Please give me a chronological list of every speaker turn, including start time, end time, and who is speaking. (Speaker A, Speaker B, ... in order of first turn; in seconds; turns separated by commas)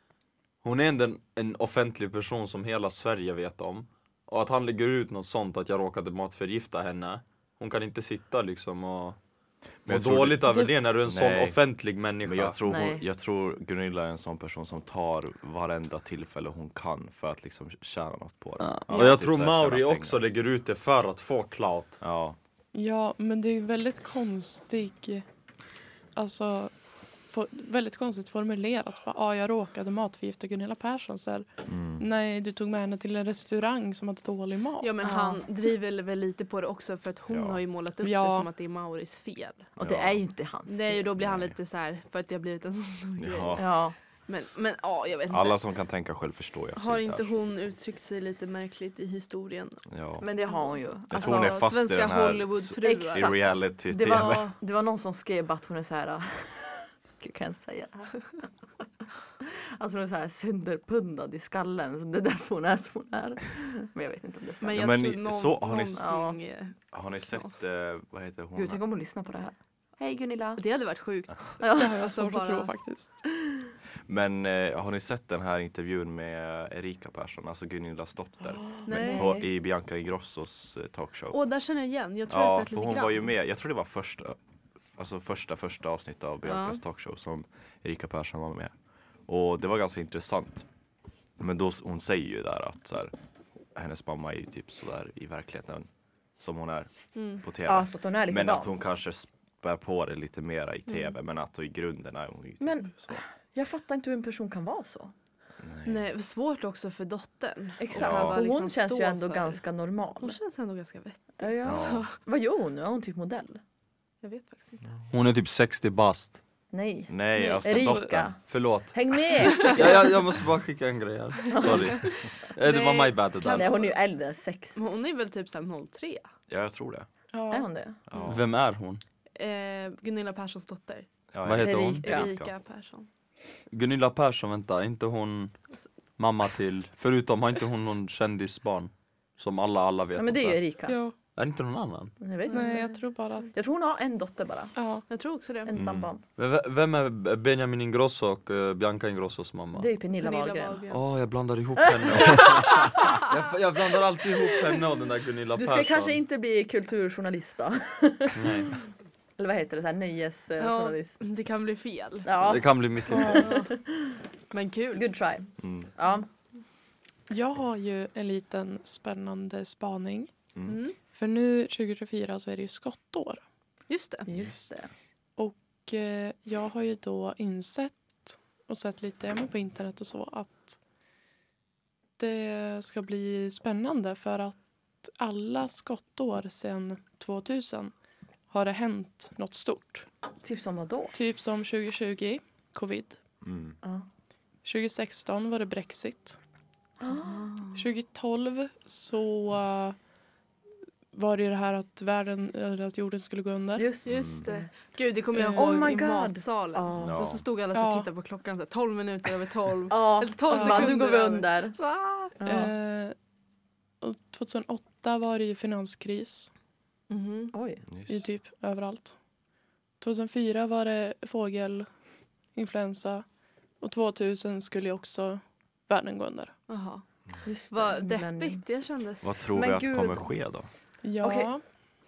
Speaker A: 0.6-9.2, Speaker B: 9.8-11.6, Speaker A: 9.8-12.6, Speaker B: 12.2-20.2, Speaker C: 12.7-13.0, Speaker A: 18.6-22.0, Speaker D: 18.9-19.2, Speaker B: 22.0-22.4, Speaker E: 22.7-25.2, Speaker E: 26.1-31.4, Speaker B: 31.7-32.0, Speaker E: 32.0-35.2, Speaker D: 34.8-39.7, Speaker C: 35.0-35.4, Speaker B: 37.3-37.6, Speaker E: 38.0-38.5, Speaker C: 39.8-41.1, Speaker B: 39.8-40.2, Speaker D: 40.7-43.6, Speaker B: 41.2-41.5, Speaker B: 43.2-43.6, Speaker C: 43.6-44.0, Speaker D: 44.3-45.6, Speaker B: 45.3-47.7, Speaker D: 46.7-49.8, Speaker B: 49.9-50.2, Speaker C: 50.2-51.7, Speaker B: 51.1-54.5, Speaker D: 51.1-53.3, Speaker C: 52.8-58.1, Speaker D: 54.0-54.5, Speaker C: 59.4-64.8, Speaker D: 64.6-67.6, Speaker B: 64.7-66.0, Speaker C: 66.0-66.4, Speaker B: 66.9-68.8, Speaker C: 68.5-70.6, Speaker D: 70.6-72.7, Speaker C: 71.6-72.0, Speaker E: 71.6-73.2, Speaker B: 74.1-81.4, Speaker C: 78.6-79.4, Speaker D: 78.8-79.4, Speaker D: 81.3-83.2, Speaker B: 82.3-84.4, Speaker B: 85.0-88.7, Speaker D: 86.4-86.8, Speaker B: 89.3-90.7, Speaker B: 91.4-93.1, Speaker B: 93.7-103.2, Speaker D: 97.1-97.4, Speaker C: 97.7-98.7, Speaker C: 102.6-105.1, Speaker B: 105.6-106.0, Speaker D: 105.8-109.6, Speaker C: 107.8-110.4, Speaker B: 107.9-108.4, Speaker D: 110.2-112.2, Speaker C: 111.4-113.6, Speaker B: 111.7-112.0, Speaker D: 114.2-114.8, Speaker A: 115.1-116.4, Speaker C: 116.7-120.0, Speaker B: 117.1-118.3, Speaker D: 117.4-117.6, Speaker A: 118.5-119.0, Speaker A: 119.6-123.7, Speaker C: 121.5-122.1, Speaker D: 121.7-123.9, Speaker C: 123.5-124.8, Speaker D: 124.7-126.3, Speaker B: 126.5-127.1, Speaker E: 127.3-127.7, Speaker C: 127.5-128.0, Speaker B: 128.1-128.4, Speaker A: 128.3-129.0, Speaker D: 129.3-131.1, Speaker B: 131.3-132.5, Speaker A: 131.4-132.1, Speaker C: 131.6-132.3, Speaker D: 132.0-133.1, Speaker A: 133.7-135.5, Speaker A: 136.2-140.6, Speaker C: 140.2-141.0, Speaker E: 140.9-141.1, Speaker A: 141.3-142.1, Speaker C: 142.2-142.8, Speaker D: 142.5-143.4, Speaker E: 142.5-143.5, Speaker C: 143.5-144.7, Speaker E: 144.8-145.0, Speaker D: 145.1-145.7, Speaker C: 145.7-146.2, Speaker B: 145.7-146.1, Speaker A: 146.4-149.9, Speaker C: 149.7-150.8, Speaker D: 150.1-151.0, Speaker A: 150.9-156.2, Speaker C: 151.8-153.0, Speaker C: 155.6-158.6, Speaker A: 158.3-158.7, Speaker C: 159.4-161.2, Speaker D: 160.6-162.3, Speaker C: 162.2-164.2, Speaker A: 162.4-163.5, Speaker D: 163.3-163.7, Speaker D: 164.5-165.1, Speaker C: 164.9-166.3, Speaker B: 165.6-165.9, Speaker E: 167.3-170.3, Speaker D: 170.7-170.9, Speaker E: 171.1-173.4, Speaker D: 173.9-174.2, Speaker C: 174.2-174.9, Speaker E: 175.4-180.8, Speaker E: 182.2-187.9, Speaker E: 188.5-190.1, Speaker C: 190.4-191.1, Speaker E: 191.1-193.2, Speaker B: 193.4-193.8, Speaker C: 193.8-194.1, Speaker E: 194.6-196.4, Speaker C: 197.0-197.7, Speaker D: 197.1-197.8, Speaker E: 197.7-199.9, Speaker E: 201.1-203.9, Speaker C: 203.7-204.7, Speaker D: 204.0-212.3, Speaker B: 204.1-204.4, Speaker E: 205.3-205.9, Speaker C: 205.5-207.2, Speaker B: 206.9-207.4, Speaker E: 207.7-208.1, Speaker C: 209.9-211.8, Speaker E: 210.5-211.0, Speaker C: 212.4-212.7, Speaker E: 212.4-213.1, Speaker E: 214.0-216.5, Speaker D: 217.1-217.5, Speaker C: 217.5-217.8, Speaker B: 217.9-218.3, Speaker E: 218.1-219.2, Speaker E: 220.0-221.9, Speaker E: 222.5-223.2, Speaker E: 223.8-226.5, Speaker D: 226.7-229.3, Speaker C: 227.4-228.6, Speaker B: 229.2-230.7, Speaker C: 229.5-230.3, Speaker E: 231.0-231.6, Speaker C: 231.2-231.6